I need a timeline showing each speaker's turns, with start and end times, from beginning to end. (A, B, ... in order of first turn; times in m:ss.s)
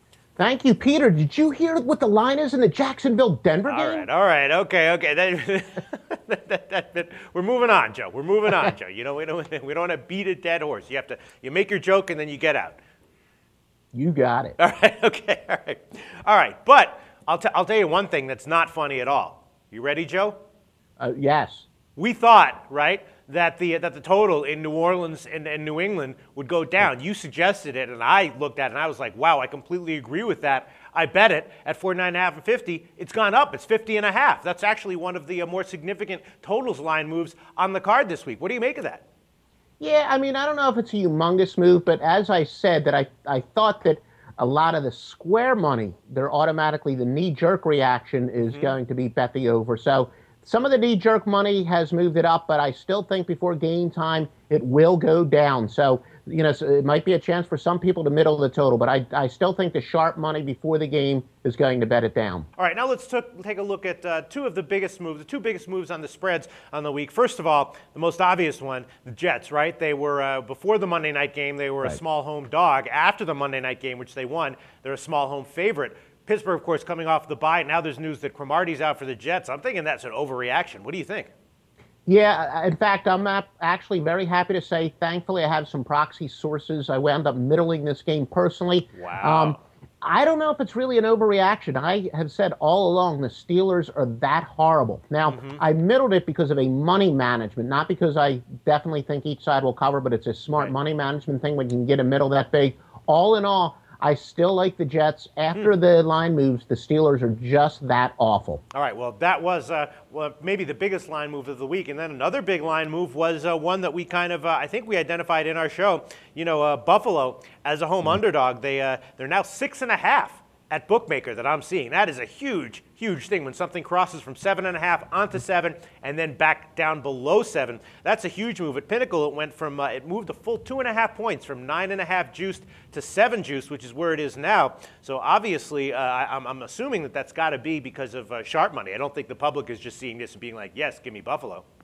0:00.4-0:04.1 A
0:03.7-0:12.8 B
0:13.9-0:14.6 A
0:14.6-0:20.4 B
0:21.0-0:21.7 A
0:22.0-0:39.0 B
0:39.8-1:02.5 A
0:48.4-0:48.7 B
1:02.6-1:21.3 B
1:22.1-1:48.6 A
1:28.9-1:29.6 B
1:35.3-1:35.6 B
1:48.7-2:21.6 B